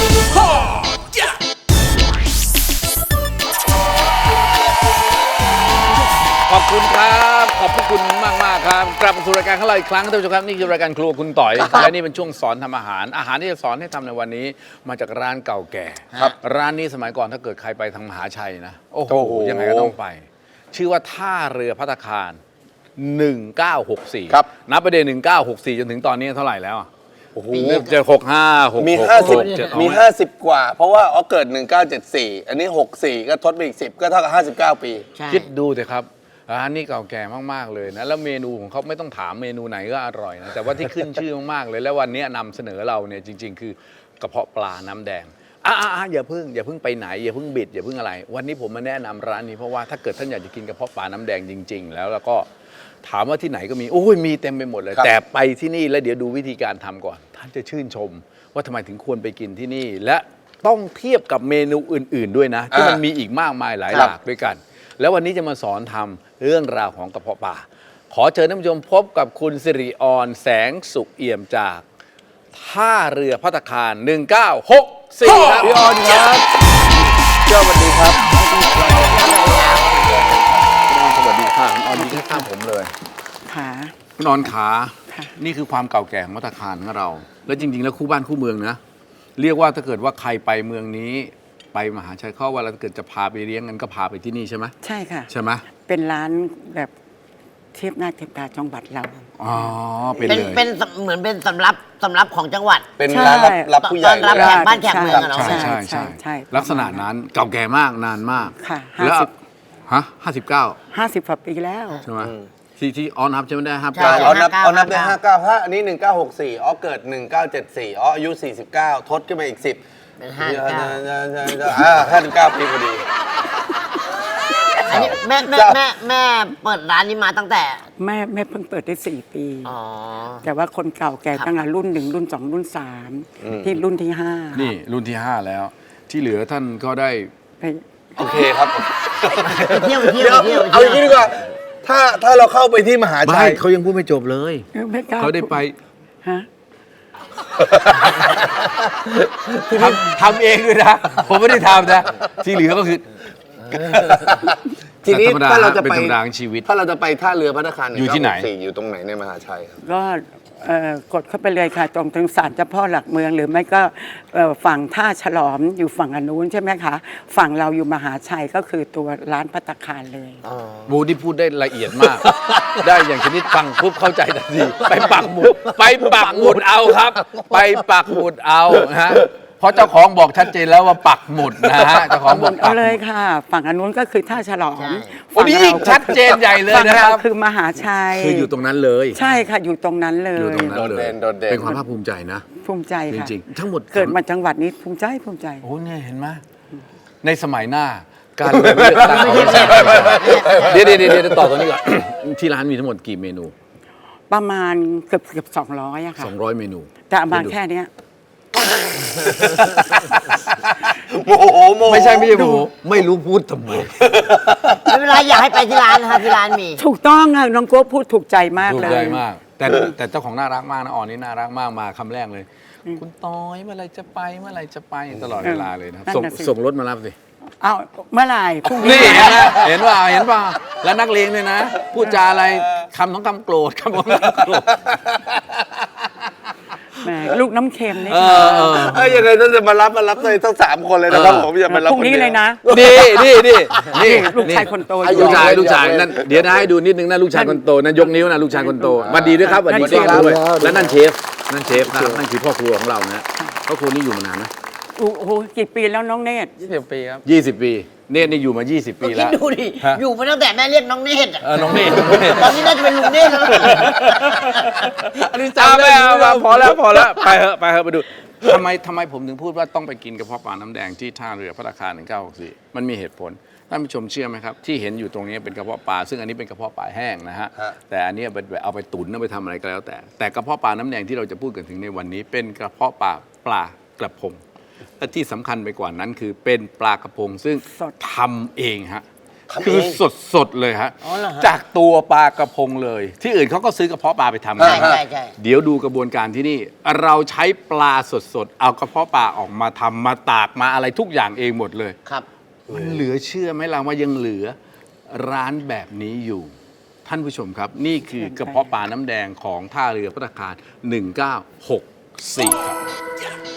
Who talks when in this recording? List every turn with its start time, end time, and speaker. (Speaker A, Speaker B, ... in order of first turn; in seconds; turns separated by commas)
Speaker A: 0.3-1.1, Speaker A: 6.5-22.4, Speaker B: 19.1-19.9, Speaker A: 23.0-26.9, Speaker B: 27.4-27.7, Speaker C: 27.5-28.0, Speaker A: 27.6-30.1, Speaker B: 28.8-35.1, Speaker C: 29.1-29.8, Speaker C: 35.2-35.5, Speaker A: 35.3-52.5, Speaker A: 53.0-71.8, Speaker B: 62.7-63.0, Speaker A: 72.5-75.8, Speaker B: 75.3-76.5, Speaker B: 77.5-78.2, Speaker D: 78.3-79.3, Speaker C: 79.0-80.2, Speaker A: 80.6-82.9, Speaker D: 81.9-82.5, Speaker D: 83.5-83.9, Speaker A: 84.2-88.8, Speaker A: 89.4-94.7, Speaker D: 94.8-95.3, Speaker A: 95.3-95.7, Speaker D: 95.8-96.9, Speaker D: 97.7-99.7, Speaker A: 99.4-100.6, Speaker C: 100.3-102.9, Speaker B: 103.0-105.5, Speaker D: 103.1-103.7, Speaker C: 103.8-105.7, Speaker D: 104.3-107.1, Speaker A: 105.3-109.3, Speaker D: 108.6-109.3, Speaker A: 109.9-110.8, Speaker D: 110.9-112.0, Speaker A: 112.1-114.4, Speaker B: 112.2-112.5, Speaker C: 114.0-115.2, Speaker B: 114.0-119.8, Speaker C: 120.2-121.0, Speaker B: 120.4-123.0, Speaker C: 124.9-127.8, Speaker B: 124.9-125.8, Speaker D: 128.0-129.7, Speaker C: 129.7-130.4, Speaker D: 130.4-134.7, Speaker B: 133.4-133.8, Speaker A: 134.5-137.3, Speaker D: 137.6-138.5, Speaker B: 138.2-143.6, Speaker C: 139.4-141.2, Speaker A: 143.2-145.8, Speaker D: 144.7-145.6, Speaker B: 147.6-149.9, Speaker A: 149.7-153.1, Speaker A: 153.7-154.1, Speaker B: 153.7-159.8, Speaker A: 155.1-156.7, Speaker A: 157.9-158.5, Speaker D: 159.8-170.4, Speaker B: 170.4-170.9, Speaker A: 170.9-183.0, Speaker B: 172.0-172.8, Speaker B: 174.9-176.6, Speaker B: 181.6-182.1, Speaker D: 182.2-188.5, Speaker C: 184.8-185.2, Speaker A: 185.3-187.3, Speaker A: 188.1-189.2, Speaker D: 189.1-190.8, Speaker A: 190.4-192.5, Speaker B: 190.7-191.8, Speaker D: 192.6-193.3, Speaker A: 193.1-194.2, Speaker D: 193.9-195.7, Speaker A: 195.6-196.4, Speaker A: 197.2-203.5, Speaker B: 198.6-201.5, Speaker C: 199.3-200.9, Speaker D: 204.3-206.3, Speaker A: 206.2-207.6, Speaker D: 207.1-207.9, Speaker B: 209.0-209.8, Speaker A: 209.6-210.4, Speaker B: 210.9-212.7, Speaker A: 211.9-214.2, Speaker B: 214.0-214.9, Speaker C: 214.8-216.8, Speaker D: 216.8-219.2, Speaker A: 218.6-227.2, Speaker D: 225.4-226.5, Speaker D: 227.6-229.6, Speaker A: 228.8-234.8, Speaker B: 234.9-235.6, Speaker D: 237.0-238.9, Speaker A: 238.1-239.2, Speaker B: 238.7-243.7, Speaker A: 241.1-241.5, Speaker D: 241.7-242.6, Speaker A: 242.7-254.5, Speaker D: 243.9-245.7, Speaker B: 245.0-246.7, Speaker D: 248.2-250.4, Speaker B: 249.0-251.0, Speaker B: 251.8-252.2, Speaker D: 255.0-256.6, Speaker B: 256.6-257.2, Speaker A: 257.2-260.0, Speaker C: 259.0-264.9, Speaker A: 261.4-262.7, Speaker B: 263.4-264.0, Speaker A: 263.5-284.4, Speaker B: 265.1-267.3, Speaker A: 285.0-289.1, Speaker B: 289.5-290.0, Speaker A: 289.6-302.0, Speaker C: 291.0-291.5, Speaker B: 294.6-295.0, Speaker C: 294.6-295.4, Speaker A: 302.7-304.6, Speaker A: 305.1-306.5, Speaker A: 307.1-312.8, Speaker D: 308.1-308.7